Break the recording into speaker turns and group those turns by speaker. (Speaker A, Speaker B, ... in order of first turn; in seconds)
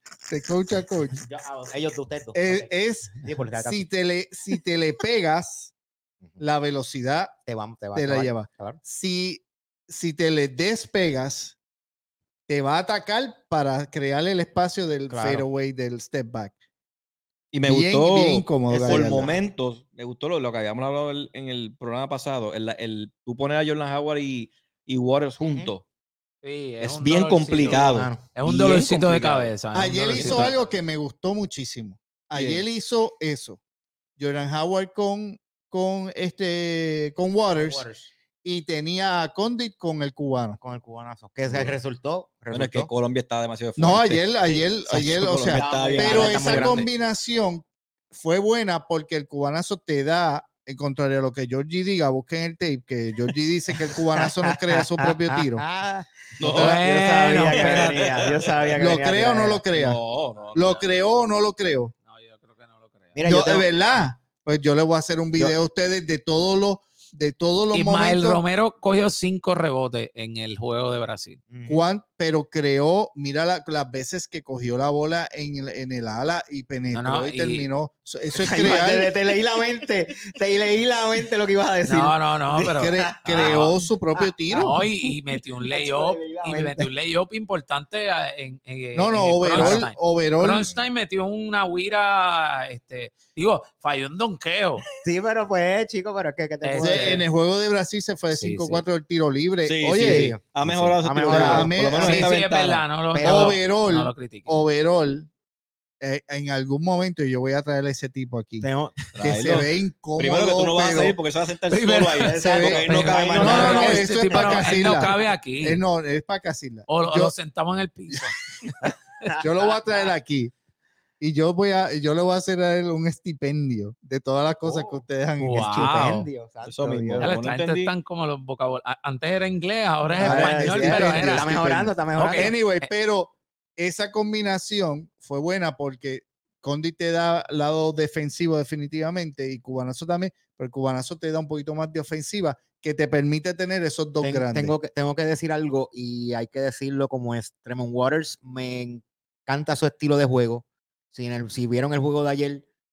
Speaker A: 0.3-1.2, 2.3-5.7, 6.4-7.4, 7.9-11.6, 12.5-16.5, 17.6-19.3, 29.7-33.6, 34.2-37.9, 38.4-40.6, 43.8-55.6, 56.4-57.7, 58.8-60.0, 60.5-61.9, 63.2-68.4, 71.7-79.1, 82.7-84.8, 88.9-90.8, 96.8-100.4, 101.2-102.3, 103.2-105.3, 106.0-111.2, 112.4-117.3, 119.4-120.5, 121.2-126.0, 130.2-144.7
Speaker B: 1.2-3.9, 7.5-8.8, 15.1-15.5, 18.7-19.4, 25.4-25.7, 27.7-28.2, 37.5-38.1, 40.6-42.9, 44.9-46.9, 54.1-59.6, 63.1-63.7, 71.5-71.8, 78.3-85.1, 85.7-86.9, 89.5-89.8, 95.0-97.2, 99.9-101.8, 103.1-103.6, 108.6-109.0, 112.2-115.1, 119.3-119.7, 124.7-125.0, 125.5-127.3, 130.2-132.5, 144.2-152.6
Speaker C: 17.5-25.8, 26.8-29.5, 30.1-30.5, 32.3-32.6, 41.5-41.7, 42.5-44.3, 44.9-46.9, 56.4-56.8, 57.5-58.7, 59.7-60.8, 99.7-102.8, 109.1-114.1, 126.6-127.9
Speaker D: 26.4-30.5, 56.5-58.2, 62.1-63.2, 67.7-71.4, 76.9-77.7, 81.8-83.7, 84.5-94.8, 96.6-97.2, 98.3-98.8, 102.0-104.6, 111.7-115.8, 116.9-118.3, 125.4-126.3, 127.2-131.6, 132.1-132.9